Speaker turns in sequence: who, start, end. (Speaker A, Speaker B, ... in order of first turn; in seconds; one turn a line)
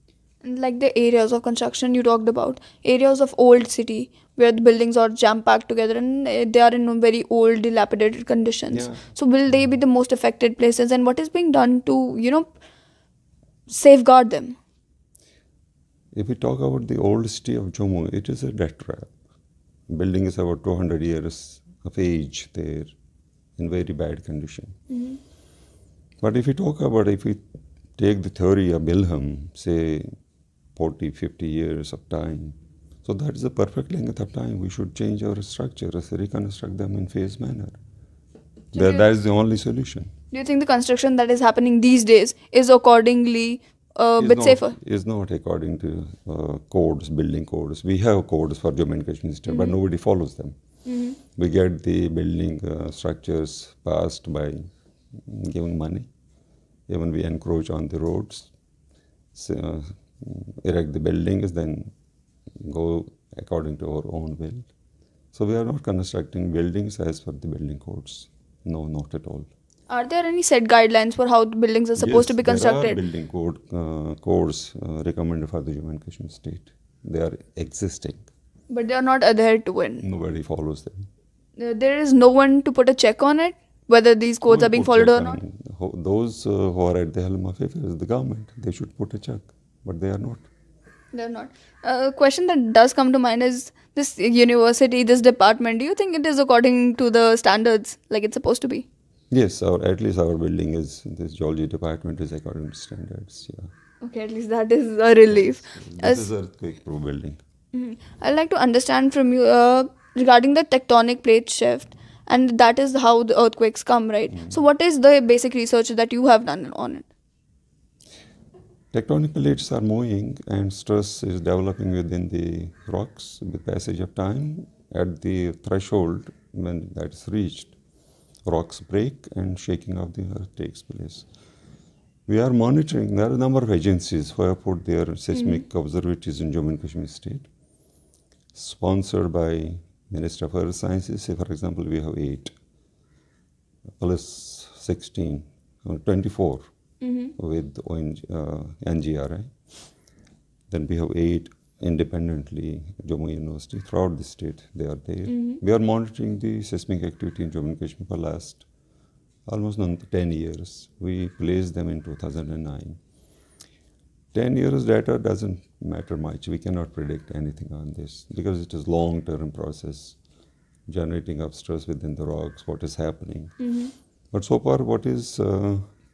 Speaker A: 0.4-12.5
Speaker B: 8.7-9.1
Speaker A: 13.7-14.6
Speaker B: 16.1-19.1
Speaker B: 19.9-22.9
Speaker B: 23.6-24.8
Speaker A: 24.9-25.2
Speaker B: 26.2-27.4
Speaker B: 28.0-30.1
Speaker B: 30.8-37.8
Speaker A: 38.7-39.0
Speaker B: 38.7-40.1
Speaker A: 40.3-44.8
Speaker B: 44.2-50.5
Speaker A: 49.5-49.8
Speaker A: 50.8-51.2
Speaker B: 51.4-56.1
Speaker B: 56.9-58.5
Speaker B: 59.3-61.9
Speaker B: 62.6-64.7
Speaker B: 65.3-69.5
Speaker A: 69.9-73.0
Speaker B: 72.0-78.3
Speaker A: 78.7-80.0
Speaker B: 80.0-81.1
Speaker A: 81.6-85.4
Speaker B: 84.5-90.5
Speaker A: 91.1-98.8
Speaker B: 99.3-103.7
Speaker A: 104.0-106.3
Speaker B: 105.3-107.4
Speaker A: 107.7-117.1
Speaker B: 114.3-114.6
Speaker B: 118.9-127.8
Speaker B: 128.4-131.3
Speaker B: 132.3-137.5
Speaker A: 135.3-135.6
Speaker B: 138.5-142.5
Speaker B: 144.0-146.6
Speaker A: 147.0-147.3
Speaker B: 147.4-149.5
Speaker B: 150.7-158.7
Speaker A: 155.3-155.6
Speaker B: 159.5-163.0
Speaker B: 164.3-170.2
Speaker B: 170.9-173.6
Speaker A: 173.6-173.9
Speaker B: 174.3-175.9